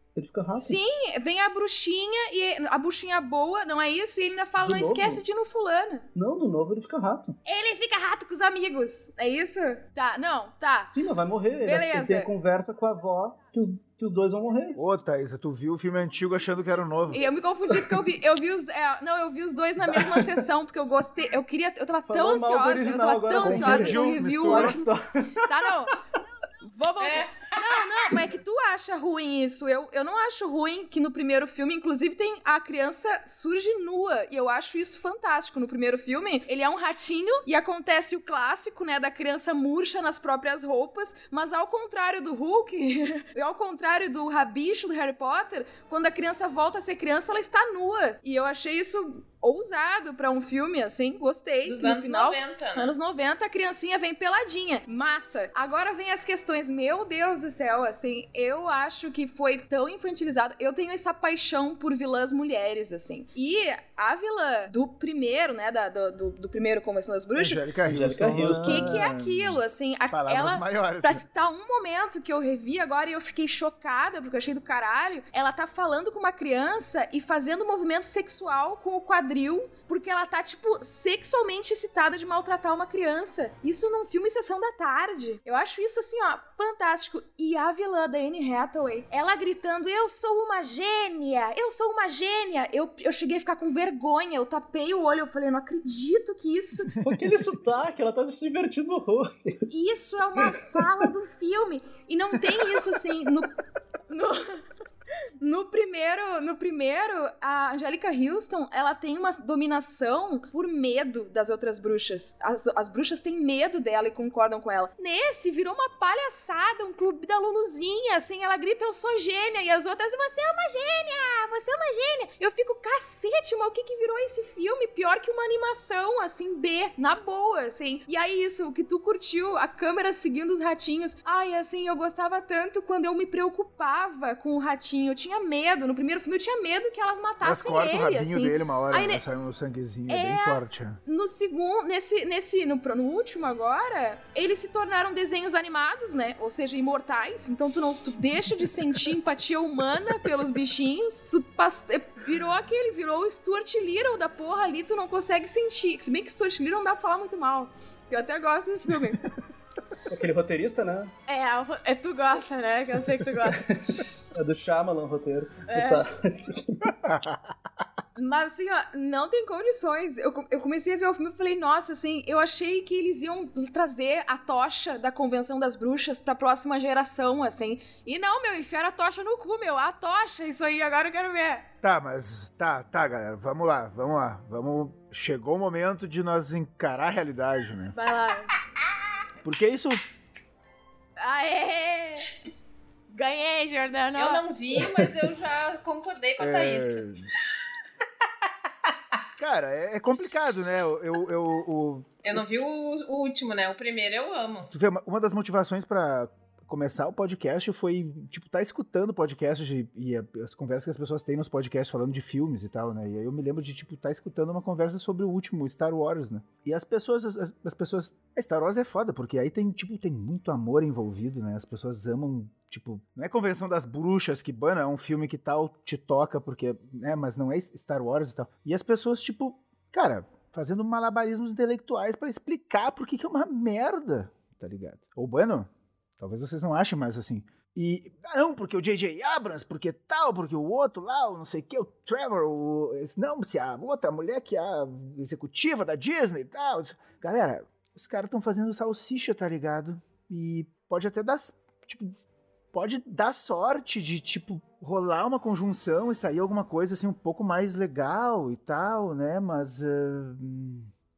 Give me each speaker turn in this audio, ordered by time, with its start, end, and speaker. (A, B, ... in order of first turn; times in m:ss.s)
0:00.1-0:00.8 A
0:00.6-0:06.0 B
0:04.6-0:05.2 A
0:06.1-0:07.4 A
0:07.4-0:10.9 B
0:10.9-0:14.8 A
0:11.6-0:12.3 B
0:14.7-0:17.2 C
0:17.1-0:24.8 B
0:19.9-0:20.4 A
0:22.1-0:25.5 A
0:23.4-0:24.9 C
0:25.4-0:26.0 B
0:26.6-1:07.7 B
0:27.0-0:27.6 D
0:51.6-0:52.9 D
1:07.4-1:11.2 C
1:07.9-1:09.0 A
1:08.6-1:37.0 B
1:37.0-1:39.8 A
1:39.7-1:43.5 B
1:40.4-1:41.1 A
1:44.1-1:44.6 B
1:45.4-2:19.2 B
2:17.4-2:21.0 C
2:20.1-2:39.3 B
2:40.1-2:41.1 A
2:41.3-2:43.6 B
2:43.5-2:46.9 A
2:45.7-2:46.0 B
2:47.0-2:47.5 C
2:48.2-3:01.6 B
3:01.8-3:07.9 C
3:07.9-3:08.5 B
3:09.4-3:10.0 C
3:11.2-3:12.3 B
3:13.1-3:14.4 B
3:14.2-3:17.1 D
3:16.4-3:17.3 C
3:19.4-3:22.4 C
3:22.2-3:24.7 D
3:24.7-4:12.2 C
4:12.7-4:20.9 C